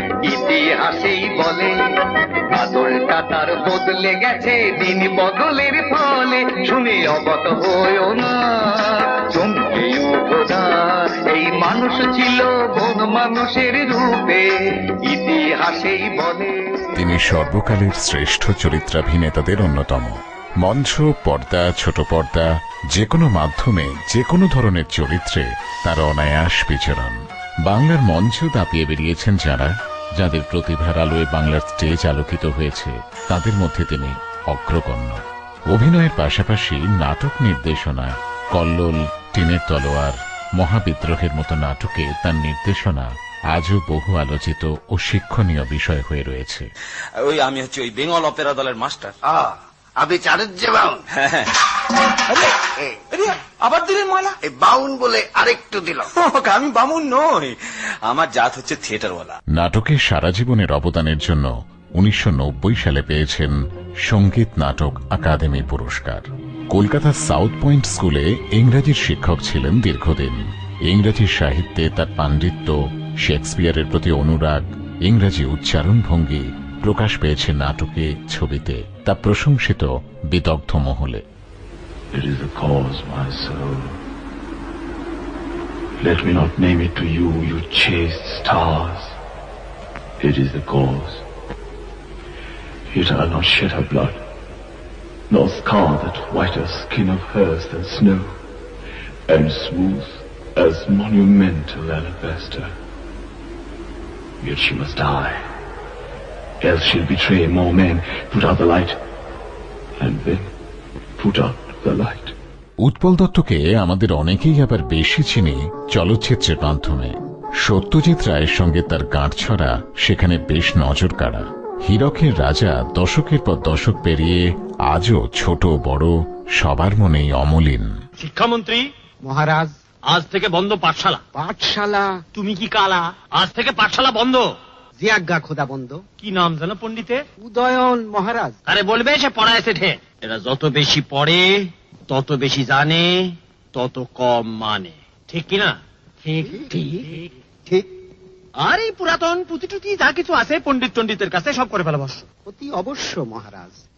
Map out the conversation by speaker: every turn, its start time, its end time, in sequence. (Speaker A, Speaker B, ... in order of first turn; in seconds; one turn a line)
Speaker A: 0.3-1.7
Speaker A: 2.6-8.3
Speaker A: 9.3-14.4
Speaker A: 15.1-16.5
Speaker B: 16.9-35.2
Speaker B: 35.7-46.6
Speaker C: 47.2-49.1
Speaker D: 49.3-51.0
Speaker C: 51.2-51.5
Speaker C: 53.2-54.3
Speaker D: 54.4-56.1
Speaker C: 56.1-57.5
Speaker C: 58.0-59.4
Speaker B: 59.5-63.5
Speaker B: 64.1-81.2
Speaker E: 82.1-84.0
Speaker E: 86.0-89.2
Speaker E: 90.2-91.2
Speaker E: 92.9-94.2
Speaker E: 95.3-98.3
Speaker E: 99.3-102.7
Speaker E: 104.4-105.4
Speaker E: 106.6-109.0
Speaker E: 110.0-110.5
Speaker E: 111.2-112.3
Speaker B: 112.8-127.9
Speaker F: 128.2-128.8
Speaker G: 129.2-129.7
Speaker F: 130.1-131.2
Speaker G: 131.3-132.2
Speaker F: 132.3-134.4
Speaker G: 135.0-136.0
Speaker F: 136.2-137.2
Speaker G: 137.4-138.6
Speaker F: 138.7-145.8
Speaker F: 146.3-146.9
Speaker G: 146.4-146.9
Speaker F: 148.6-152.2
Speaker G: 152.5-153.8